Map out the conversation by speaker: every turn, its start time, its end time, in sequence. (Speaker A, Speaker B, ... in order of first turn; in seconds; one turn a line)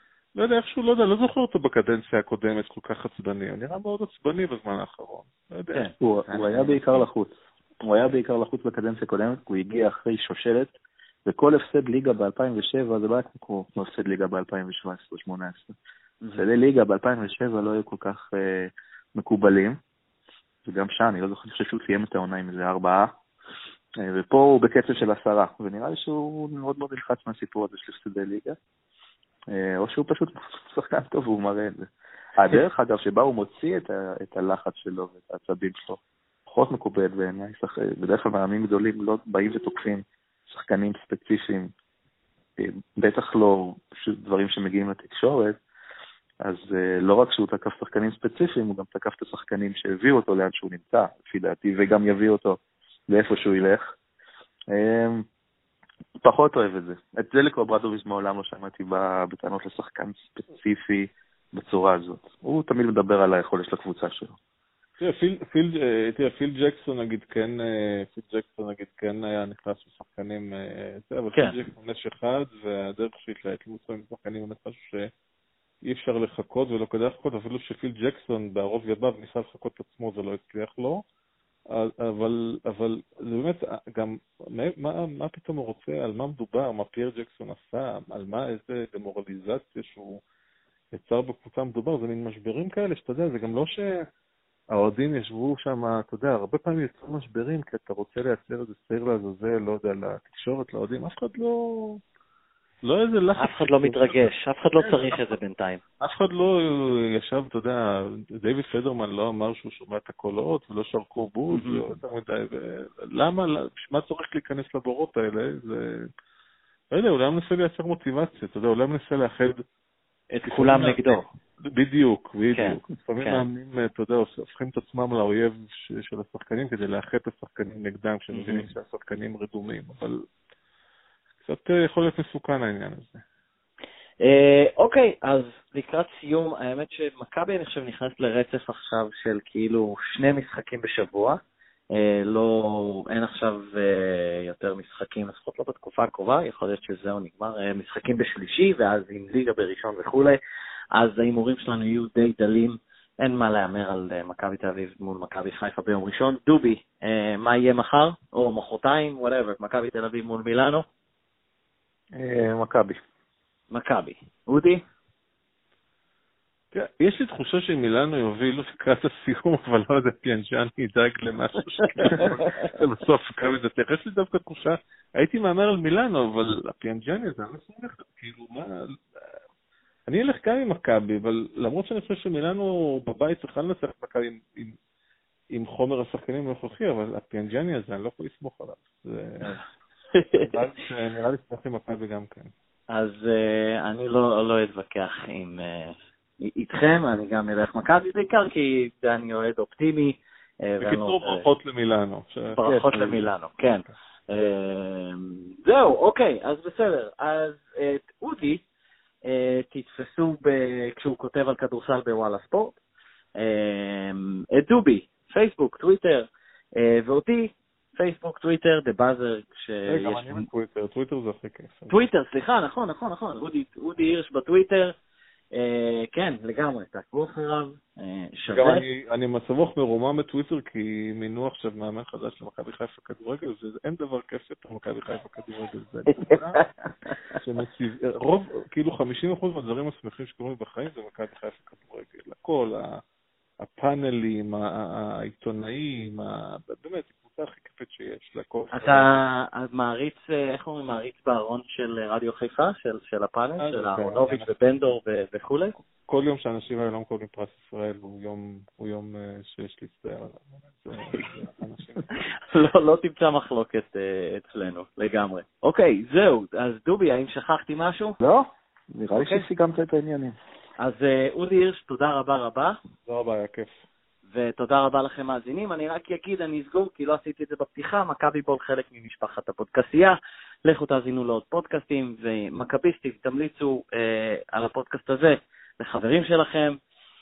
Speaker A: 0.3-5.9
Speaker B: 5.7-7.1
Speaker C: 6.0-10.7
Speaker C: 11.2-15.8
Speaker B: 16.2-16.5
Speaker C: 16.4-19.8
Speaker C: 20.6-23.1
Speaker C: 24.0-28.6
Speaker C: 29.5-41.7
Speaker C: 42.6-45.6
Speaker C: 46.4-53.9
Speaker C: 54.7-55.3
Speaker C: 56.2-64.4
Speaker A: 65.0-75.1
Speaker A: 75.8-81.0
Speaker A: 81.7-90.2
Speaker A: 90.9-94.1
Speaker A: 94.7-102.0
Speaker A: 102.8-105.4
Speaker B: 103.4-105.8
Speaker A: 106.0-116.1
Speaker B: 111.5-111.8
Speaker A: 116.9-119.6
Speaker B: 120.3-121.3
Speaker A: 120.5-130.2
Speaker B: 122.5-123.5
Speaker B: 128.3-128.7
Speaker A: 131.4-133.2
Speaker B: 134.2-141.4
Speaker B: 141.9-150.4
Speaker B: 150.9-160.8
Speaker C: 162.2-163.0
Speaker B: 163.7-164.8
Speaker A: 166.7-179.3
Speaker B: 171.8-172.7
Speaker A: 180.1-184.8
Speaker A: 185.5-189.6
Speaker B: 190.1-190.5
Speaker A: 190.4-192.5
Speaker B: 192.9-201.5
Speaker A: 200.8-203.3
Speaker B: 202.5-208.6
Speaker B: 209.2-212.8
Speaker B: 213.3-220.5
Speaker A: 219.9-222.0
Speaker B: 221.9-224.9
Speaker B: 225.5-228.8
Speaker A: 228.5-236.6
Speaker B: 236.1-236.7
Speaker A: 237.3-243.0
Speaker A: 243.6-249.1
Speaker B: 248.7-255.8
Speaker A: 253.6-254.5
Speaker A: 256.1-262.3
Speaker B: 262.1-268.2
Speaker C: 268.2-270.4
Speaker B: 269.1-269.5
Speaker B: 270.8-272.8
Speaker A: 273.1-273.8
Speaker B: 274.3-286.8